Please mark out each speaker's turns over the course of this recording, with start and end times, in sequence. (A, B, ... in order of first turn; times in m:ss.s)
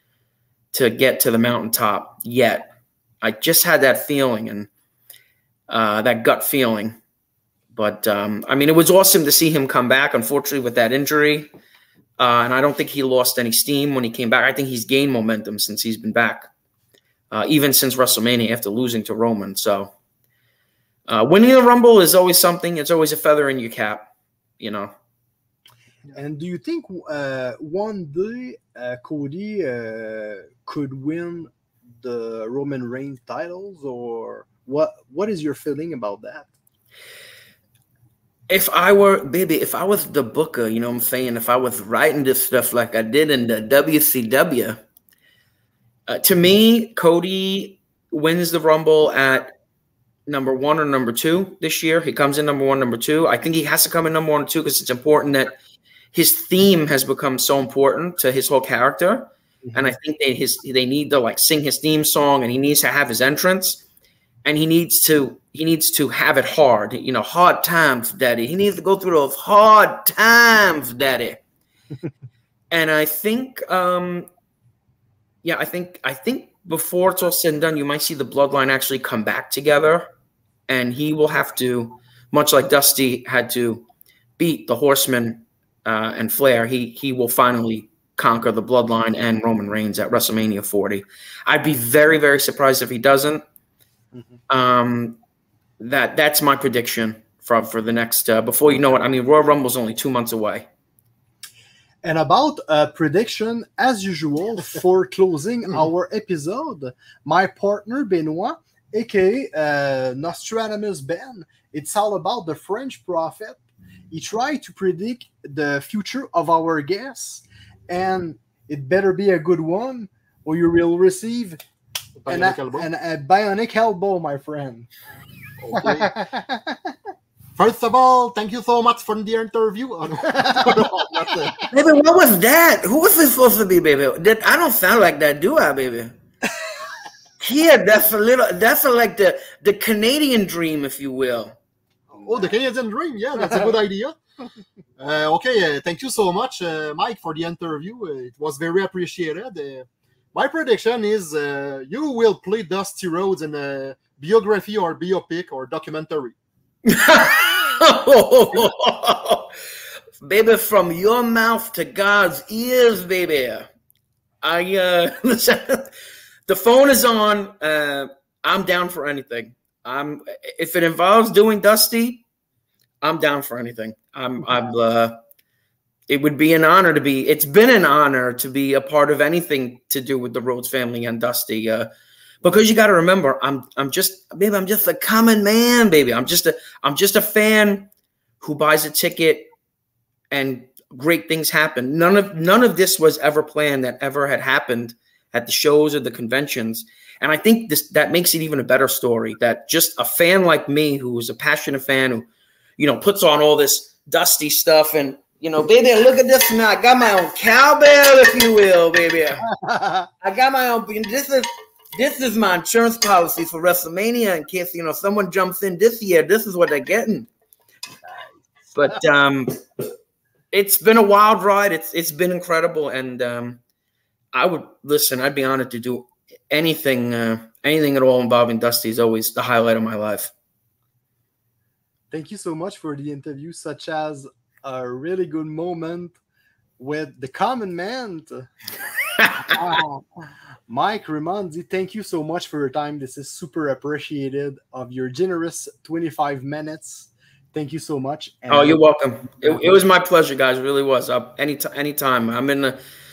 0:00.7-0:02.7 A
0:03.2-0:04.7 A
0:05.7-0:07.0 A
0:07.7-0:11.5 A
0:12.2-0:16.5 A
0:17.3-0:19.9 A
0:21.1-0:24.1 A
0:24.6-0:24.9 A
0:26.1-0:36.5 B
0:38.5-0:44.8 A
0:46.1-0:49.5 A
0:50.3-0:55.6 A
0:56.1-1:03.8 A
0:59.6-0:59.9 B
1:04.4-1:11.4 A
1:12.7-1:14.3 A
1:15.4-1:20.1 A
1:20.7-1:23.8 A
1:24.4-1:33.4 A
1:34.5-1:35.2 A
1:35.8-1:40.7 A
1:42.0-2:01.6 B
2:02.2-2:02.9 C
2:02.3-2:04.9 B
2:05.6-2:06.1 C
2:05.8-2:06.8 B
2:07.6-2:11.6 C
2:10.4-2:11.5 B
2:11.7-2:16.1 A
2:17.4-2:21.6 A
2:22.1-2:22.6 B
2:22.2-2:24.2 C
2:25.0-2:36.4 C
2:36.9-2:39.5 A
2:40.2-2:43.7 A
2:44.4-2:45.9 A
2:46.5-2:52.2 A
2:53.0-2:55.2 A
2:56.1-3:01.9 A
3:02.4-3:07.9 A
3:08.4-3:09.5 A
3:10.3-3:29.5 A
3:29.5-3:30.1 B
3:30.2-3:37.3 A
3:38.8-3:39.6 A
3:40.5-3:43.6 A
3:44.3-3:50.3 A
3:52.1-3:56.2 B
3:56.8-3:58.5 B
3:59.4-4:08.8 B
4:08.5-4:12.8 A